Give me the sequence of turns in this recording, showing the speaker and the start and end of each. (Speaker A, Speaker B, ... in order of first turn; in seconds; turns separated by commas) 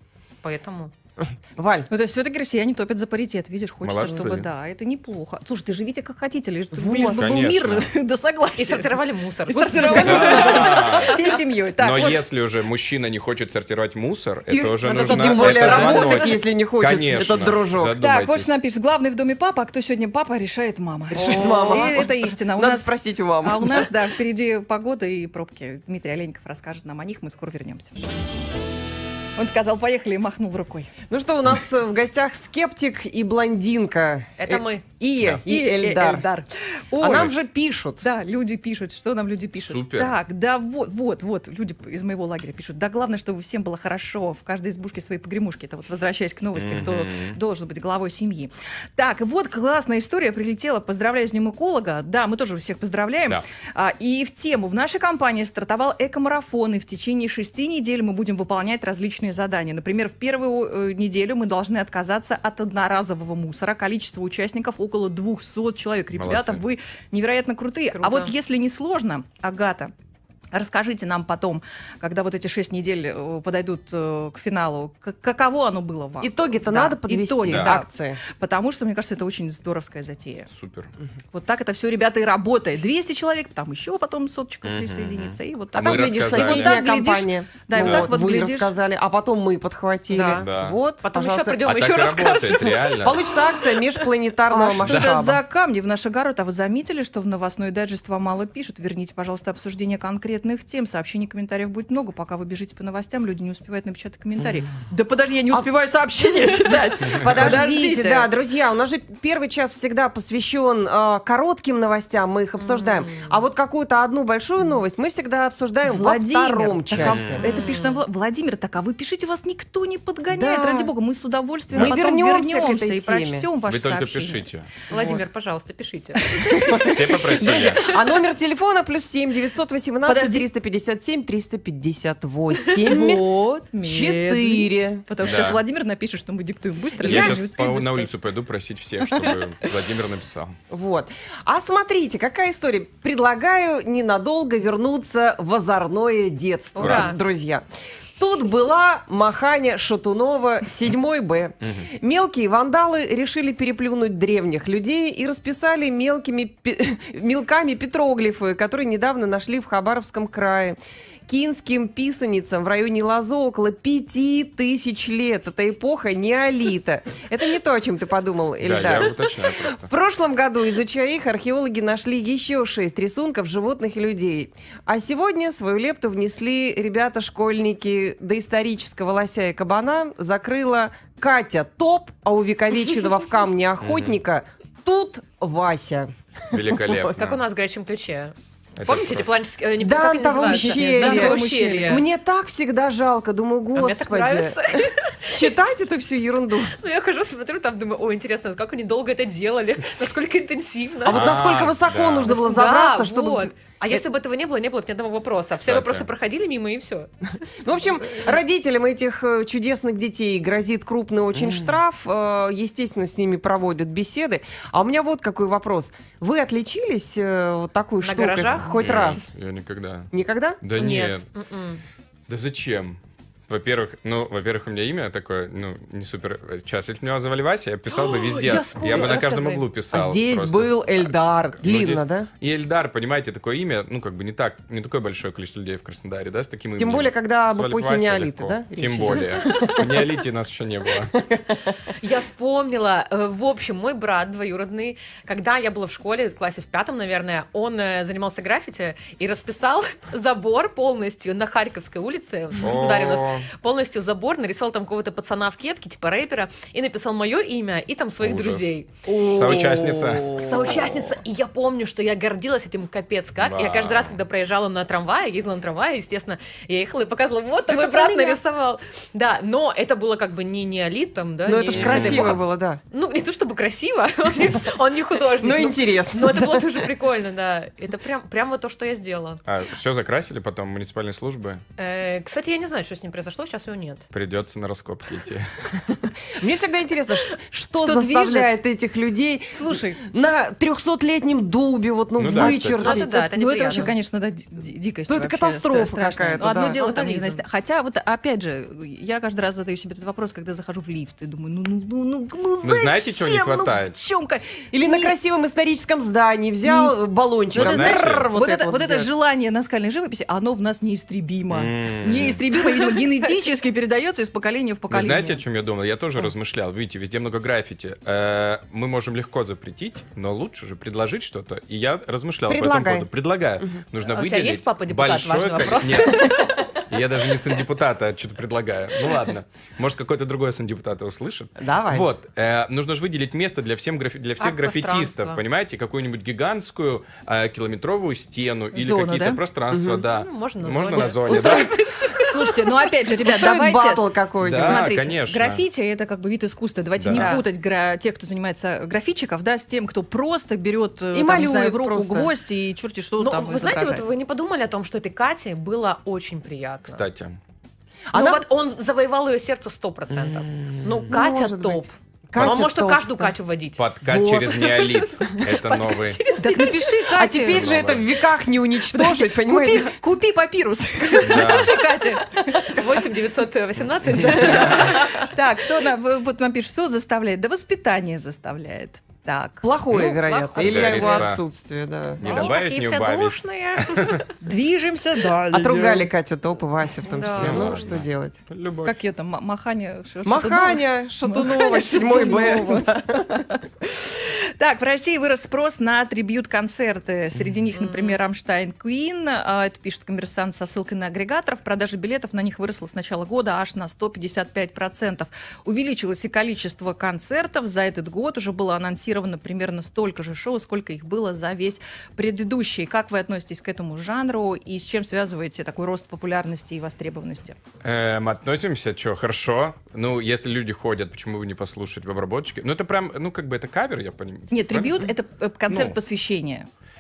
Speaker A: 0.4-0.9, Speaker B: 1.2-1.9, Speaker C: 1.9-9.0, Speaker D: 3.8-4.5, Speaker B: 6.7-7.3, Speaker D: 7.2-7.9, Speaker A: 8.6-11.1, Speaker C: 9.5-12.3, Speaker B: 9.8-10.5, Speaker D: 9.9-11.3, Speaker D: 11.8-18.5, Speaker B: 14.5-18.0, Speaker A: 14.8-16.4, Speaker C: 15.5-16.1, Speaker C: 18.0-28.1, Speaker B: 21.1-23.9, Speaker A: 21.2-21.9, Speaker C: 29.4-30.9, Speaker B: 31.1-36.2, Speaker A: 34.4-34.8, Speaker D: 35.2-35.4, Speaker C: 35.5-37.3, Speaker B: 37.0-38.1, Speaker C: 38.0-69.9, Speaker D: 39.6-40.2, Speaker D: 46.5-47.4, Speaker D: 66.1-66.6, Speaker A: 67.9-68.3, Speaker C: 70.5-80.5, Speaker B: 76.2-78.2, Speaker D: 77.5-77.8, Speaker D: 80.5-80.9, Speaker C: 81.3-88.8, Speaker D: 84.7-86.8, Speaker B: 85.8-91.6, Speaker D: 87.7-88.1, Speaker A: 90.1-94.1, Speaker D: 90.3-90.8, Speaker D: 91.6-93.2, Speaker B: 93.0-95.4, Speaker C: 94.5-108.3, Speaker D: 94.8-95.2, Speaker B: 107.1-117.5, Speaker D: 107.2-107.6, Speaker A: 112.6-113.3, Speaker C: 115.8-125.2, Speaker D: 116.9-117.4, Speaker A: 117.4-118.0, Speaker B: 120.3-120.9, Speaker D: 121.7-122.0, Speaker B: 121.7-123.5, Speaker D: 123.7-124.7, Speaker A: 124.9-126.6, Speaker B: 124.9-125.2, Speaker C: 126.3-126.9, Speaker B: 126.4-133.2, Speaker D: 126.8-127.9, Speaker C: 130.1-130.5, Speaker C: 132.8-138.1, Speaker B: 133.8-135.0, Speaker D: 135.2-135.6, Speaker B: 137.0-137.4, Speaker D: 137.1-140.6, Speaker C: 139.1-139.3, Speaker B: 140.7-147.6, Speaker A: 146.8-147.2, Speaker D: 146.8-147.1, Speaker B: 148.2-187.1, Speaker D: 151.6-151.9, Speaker D: 168.6-169.9, Speaker D: 183.8-184.2, Speaker D: 186.5-187.4, Speaker A: 187.1-192.1, Speaker D: 188.8-189.3, Speaker B: 189.8-196.8, Speaker C: 190.4-192.0, Speaker A: 193.8-195.6, Speaker A: 196.8-201.3, Speaker B: 201.1-204.0, Speaker D: 201.1-202.3, Speaker A: 202.2-208.4, Speaker D: 205.5-206.1, Speaker B: 207.6-219.3, Speaker D: 211.3-211.8, Speaker A: 218.0-219.2, Speaker D: 218.8-221.2, Speaker B: 220.1-220.6, Speaker A: 220.7-221.8, Speaker D: 222.3-241.2, Speaker A: 227.9-229.7, Speaker B: 228.9-229.2, Speaker B: 229.9-232.3, Speaker B: 236.8-239.9, Speaker B: 241.1-241.9, Speaker A: 242.0-259.8, Speaker D: 252.6-253.5, Speaker D: 258.2-258.8, Speaker B: 259.1-261.0, Speaker D: 259.3-260.3, Speaker A: 260.3-279.4, Speaker D: 263.4-264.2, Speaker C: 267.7-268.4, Speaker B: 271.5-272.8, Speaker D: 271.7-272.4, Speaker B: 275.4-276.9, Speaker D: 279.5-281.6, Speaker A: 281.8-284.0, Speaker D: 284.1-285.8, Speaker B: 286.3-293.0, Speaker C: 287.8-288.5, Speaker C: 289.5-290.0, Speaker D: 292.2-293.0, Speaker C: 292.4-305.1, Speaker A: 292.4-293.9, Speaker B: 295.1-296.8, Speaker A: 296.7-297.4, Speaker D: 302.6-304.0, Speaker B: 304.7-309.1, Speaker C: 306.6-306.9, Speaker D: 307.5-308.3, Speaker C: 307.5-315.4, Speaker D: 311.5-312.4, Speaker D: 314.9-341.7, Speaker B: 322.5-323.1, Speaker A: 324.1-326.8, Speaker B: 331.6-332.1, Speaker A: 334.4-335.4, Speaker C: 338.7-339.4, Speaker B: 339.7-340.0, Speaker A: 340.1-342.4, Speaker B: 341.0-341.8, Speaker C: 342.2-354.1, Speaker B: 343.2-344.9, Speaker D: 344.4-345.6, Speaker D: 347.0-347.4, Speaker A: 347.1-347.4, Speaker B: 351.1-352.3, Speaker A: 353.2-357.0, Speaker D: 356.9-357.4, Speaker B: 358.1-358.4, Speaker A: 358.1-363.8, Speaker B: 360.1-363.3, Speaker D: 362.4-362.6, Speaker D: 363.8-366.2, Speaker B: 364.1-364.5, Speaker A: 364.5-367.1, Speaker C: 366.4-367.7, Speaker B: 367.1-369.9, Speaker D: 367.4-368.1, Speaker C: 368.9-373.0, Speaker A: 371.1-375.3, Speaker D: 371.2-371.8, Speaker C: 374.4-379.7, Speaker D: 374.5-374.9, Speaker B: 379.6-382.2, Speaker D: 379.9-381.4, Speaker A: 380.0-381.4, Speaker D: 382.2-384.2, Speaker C: 382.2-382.5, Speaker A: 382.2-384.3, Speaker C: 384.4-386.1, Speaker B: 385.5-388.4, Speaker A: 387.1-387.9, Speaker D: 387.3-389.0, Speaker C: 388.8-417.6, Speaker B: 390.2-393.3, Speaker A: 397.8-398.2, Speaker D: 417.8-425.0, Speaker C: 424.5-426.7, Speaker D: 425.7-426.0